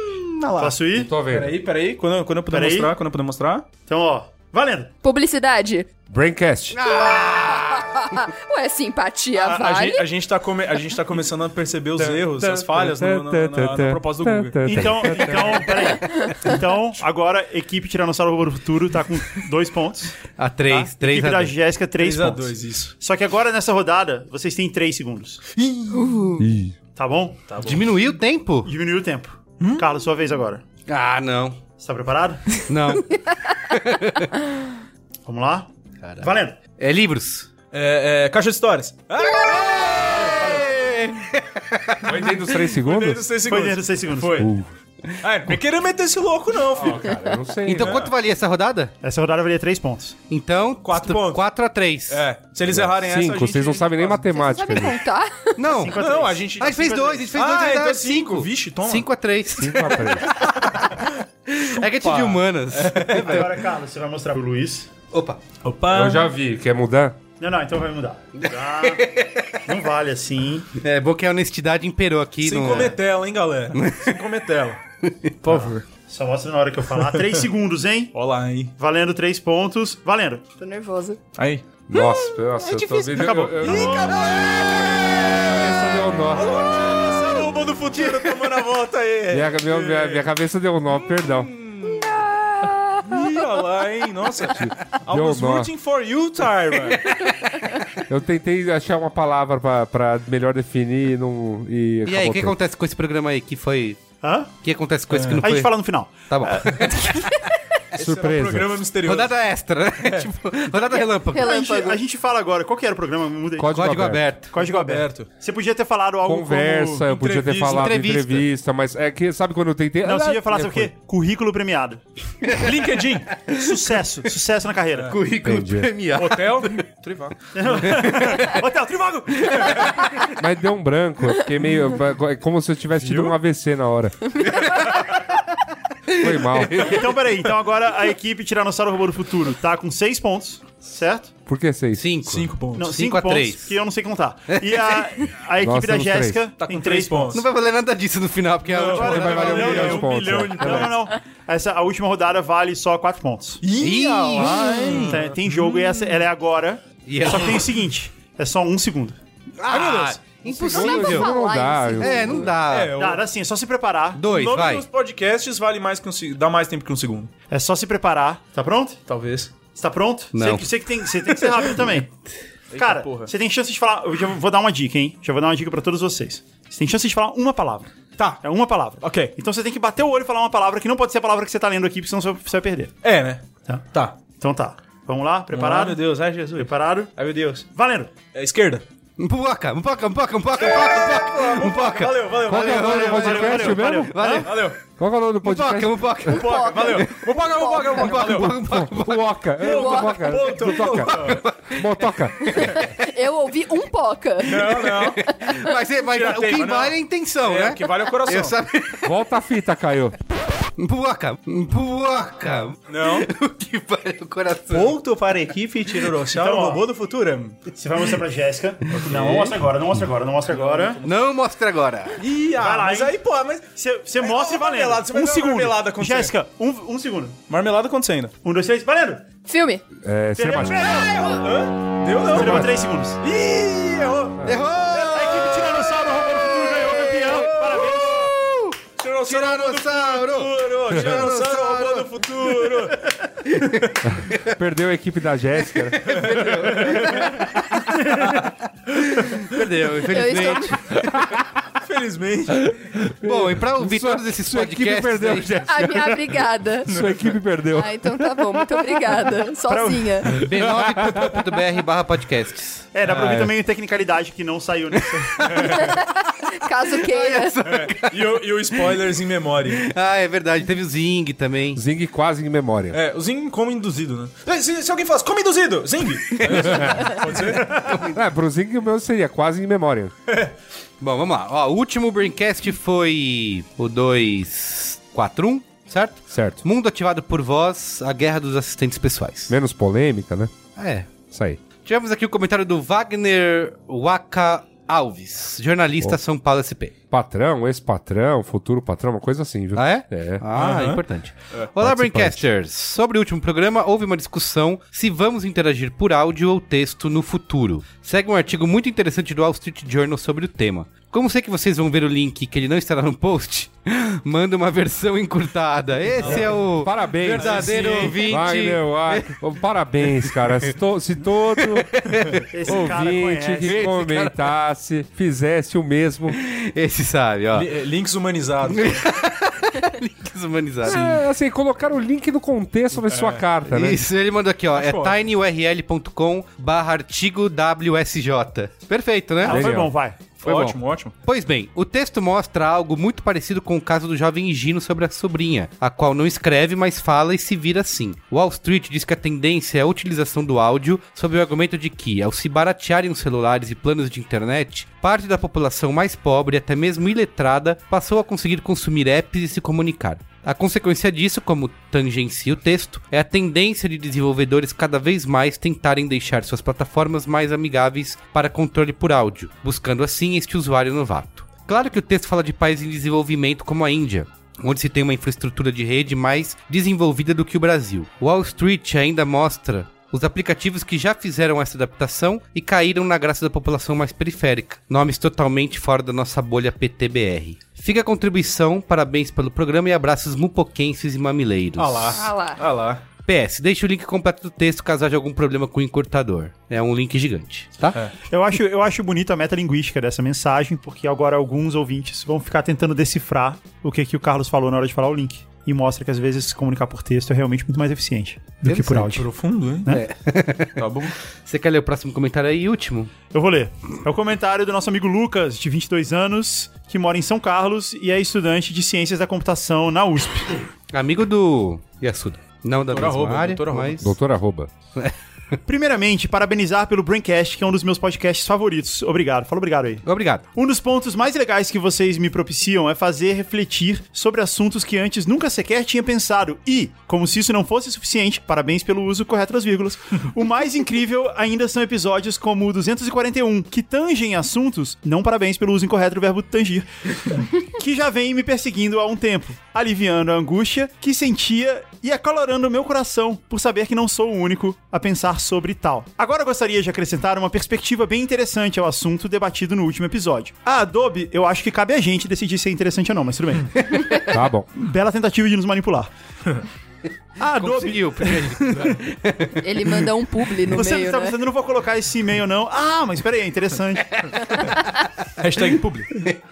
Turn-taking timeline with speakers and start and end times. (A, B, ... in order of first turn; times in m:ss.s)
0:00.4-0:00.7 A
0:00.6-0:01.1 B
0:00.9-0:01.6 C
0:01.2-0:03.7 A
0:02.5-0:02.9 B
0:03.9-0:04.9 B
0:05.0-0:05.8 D
0:06.1-0:06.8 C
0:06.7-0:08.0 E
0:06.8-0:10.0 D
0:09.3-0:15.6 A
0:12.0-0:15.6 C
0:14.6-0:20.2 B
0:15.8-0:16.5 D
0:20.4-0:21.5 E
0:20.9-0:25.4 B
0:22.0-0:22.9 A
0:25.5-0:26.3 A
0:25.9-0:26.4 D
0:26.4-0:26.8 C
0:26.9-0:27.5 B
0:27.5-0:27.8 A
0:27.6-0:28.7 E
0:28.6-0:30.6 B
0:29.6-0:29.8 A
0:30.9-0:31.6 E
0:31.8-0:32.6 B
0:32.6-0:34.4 E
0:35.3-0:35.7 B
0:36.0-0:37.5 E
0:36.2-0:36.6 B
0:37.7-0:40.2 A
0:39.2-0:42.4 E
0:40.2-0:40.6 B
0:42.0-0:43.2 C
0:42.7-0:44.5 A
0:43.4-0:44.5 B
0:44.2-0:44.7 C
0:45.2-0:47.2 A
0:46.7-0:48.1 C
0:47.6-0:48.9 E
0:47.8-0:48.1 A
0:49.0-0:50.2 B
0:50.3-0:52.2 E
0:50.8-0:51.4 A
0:52.1-0:54.2 A
0:52.6-0:55.0 C
0:54.3-0:55.6 D
0:55.6-1:03.5 E
0:55.8-0:56.5 B
0:55.9-0:59.1 A
0:59.6-1:00.3 C
1:00.6-1:01.2 A
1:01.8-1:03.5 A
1:03.2-1:04.9 B
1:05.1-1:05.4 E
1:05.6-1:06.3 A
1:05.9-1:07.2 C
1:07.4-1:10.7 B
1:08.4-1:09.6 E
1:10.8-1:13.0 E
1:12.4-1:14.8 A
1:13.7-1:14.1 E
1:15.0-1:15.3 E
1:15.4-1:15.8 A
1:15.5-1:18.2 B
1:18.1-1:18.7 A
1:18.8-1:20.4 B
1:20.6-1:21.2 D
1:21.3-1:21.6 A
1:21.9-1:24.0 C
1:23.1-1:25.7 A
1:23.2-1:24.2 B
1:25.3-1:26.4 C
1:26.3-1:30.3 A
1:29.3-1:31.5 C
1:31.2-1:32.2 A
1:32.0-1:33.0 D
1:33.0-1:37.2 A
1:34.5-1:35.7 C
1:38.1-1:42.6 C
1:42.0-1:44.0 E
1:44.2-1:44.5 B
1:44.6-1:47.2 E
1:45.1-1:45.4 A
1:45.4-1:47.4 B
1:47.9-1:49.3 A
1:48.0-1:48.8 C
1:49.0-1:51.6 E
1:50.0-1:50.3 A
1:50.9-1:52.0 D
1:51.4-1:53.7 B
1:53.6-1:54.3 C
1:53.7-1:54.5 E
1:54.5-1:57.1 B
1:54.6-1:55.3 A
1:56.2-2:00.9 C
1:57.0-1:57.8 A
1:57.6-1:58.4 E
2:00.0-2:02.0 B
2:02.4-2:02.8 E
2:02.5-2:03.4 A
2:03.4-2:03.6 E
2:03.5-2:05.2 B
2:05.0-2:06.8 E
2:05.4-2:05.9 C
2:06.1-2:08.0 A
2:07.5-2:10.0 B
2:07.8-2:08.6 E
2:09.4-2:10.2 E
2:10.4-2:14.4 C
2:13.0-2:13.3 A
2:14.4-2:14.9 E
2:16.1-2:17.0 E
2:16.2-2:17.0 C
2:16.8-2:21.3 B
2:21.5-2:22.1 C
2:22.0-2:23.7 E
2:22.2-2:22.9 A
2:22.7-2:27.4 B
2:24.5-2:25.1 E
2:25.6-2:26.4 C
2:26.6-2:27.4 A
2:27.3-2:29.8 E
2:28.7-2:30.9 A
2:28.8-2:33.6 B
2:29.0-2:30.9 C
2:33.6-2:35.9 A
2:33.8-2:35.0 E
2:34.4-2:39.2 B
2:37.0-2:37.6 E
2:39.6-2:41.3 E
2:39.7-2:40.3 A
2:40.5-2:42.5 C
2:40.7-2:42.5 D
2:42.0-2:43.0 E
2:42.6-2:43.2 A
2:42.9-2:44.2 B
2:44.2-2:44.8 E
2:44.3-2:47.3 A
2:47.5-2:49.0 B
2:49.1-2:49.6 A
2:49.6-2:52.1 B
2:50.3-2:50.7 E
2:52.7-2:53.3 A
2:52.7-3:02.9 B
2:59.0-2:59.3 A
3:03.0-3:04.2 A
3:03.6-3:07.1 B
3:05.5-3:07.6 A
3:07.7-3:08.1 B
3:08.3-3:08.8 A
3:09.2-3:14.7 E
3:10.6-3:13.7 A
3:12.4-3:14.2 C
3:12.7-3:14.5 B
3:14.4-3:14.8 A
3:14.9-3:16.3 C
3:15.4-3:17.1 E
3:16.3-3:18.0 D
3:16.3-3:18.6 A
3:17.8-3:19.3 E
3:18.2-3:22.7 C
3:19.6-3:21.4 A
3:19.6-3:20.5 D
3:20.9-3:22.8 E
3:22.7-3:25.6 D
3:24.4-3:25.2 A
3:24.6-3:29.1 E
3:26.0-3:28.6 A
3:29.0-3:30.2 C
3:30.8-3:35.0 E
3:32.9-3:33.3 A
3:34.7-3:37.6 A
3:36.3-3:36.8 B
3:37.7-3:41.0 B
3:38.9-3:39.5 A
3:39.0-3:39.6 E
3:40.5-3:41.1 A
3:41.0-3:42.2 E
3:42.2-3:46.3 A
3:42.6-3:43.2 B
3:43.8-3:47.4 B
3:47.5-3:48.3 A
3:48.4-3:49.2 B
3:49.5-3:49.8 D
3:50.0-3:50.9 C
3:50.4-3:51.4 B
3:50.7-3:55.7 A
3:52.2-3:53.2 B
3:52.3-3:52.7 C
3:54.4-3:55.7 E
3:55.1-3:58.3 B
3:56.5-4:02.8 E
3:59.0-4:03.9 A
4:03.4-4:04.5 E
4:04.2-4:06.7 C
4:05.7-4:08.4 E
4:06.1-4:07.3 A
4:08.9-4:11.1 E
4:10.1-4:11.0 D
4:11.8-4:12.7 A
4:12.7-4:19.0 C
4:13.2-4:15.6 E
4:15.7-4:17.1 D
4:17.7-4:20.3 D
4:19.7-4:20.4 B
4:20.3-4:23.5 E
4:20.4-4:21.4 C
4:22.9-4:25.5 B
4:25.2-4:25.8 E
4:25.5-4:26.0 A
4:25.7-4:27.6 D
4:27.0-4:29.0 E
4:27.6-4:29.8 A
4:29.7-4:31.8 E
4:31.7-4:33.0 C
4:32.9-4:37.8 A
4:36.5-4:37.0 E
4:36.7-4:37.0 C
4:37.7-4:38.2 E
4:37.9-4:40.1 C
4:41.0-4:49.6 E
4:46.3-4:46.6 C
4:49.5-4:50.5 C
4:50.8-4:51.1 E
4:51.3-4:51.6 C
4:51.8-4:56.9 E
4:57.1-5:00.4 C
4:59.7-5:19.3 E
5:00.5-5:01.0 A
5:01.8-5:02.4 C
5:16.2-5:18.3 A
5:16.6-5:21.9 C
5:20.0-5:20.7 E
5:21.5-5:22.9 E
5:22.5-5:23.9 B
5:22.6-5:26.4 C
5:23.6-5:24.3 E
5:26.3-5:27.7 E
5:27.5-5:29.0 A
5:28.6-5:31.2 E
5:30.8-5:34.0 C
5:33.0-5:33.4 A
5:33.7-5:39.7 E
5:34.7-5:35.2 A
5:39.4-5:40.2 B
5:39.5-5:39.9 C
5:40.4-6:32.2 E
5:40.4-5:41.1 A
6:31.8-6:33.0 A
6:32.1-6:32.6 D
6:33.2-6:38.0 E
6:38.3-6:49.3 B
6:48.7-6:49.1 E
6:48.8-6:49.9 A
6:49.9-6:53.1 E
6:50.8-6:51.2 A
6:53.3-7:00.6 B
7:00.9-7:04.1 E
7:02.9-7:04.1 A
7:04.0-7:04.7 C
7:05.6-7:44.0 B
7:10.0-7:10.4 E
7:44.2-7:44.7 C
7:44.7-7:46.1 B
7:47.4-7:48.5 B
7:47.4-7:50.0 E
7:49.6-7:51.4 D
7:50.7-7:54.6 B
7:55.4-7:56.2 A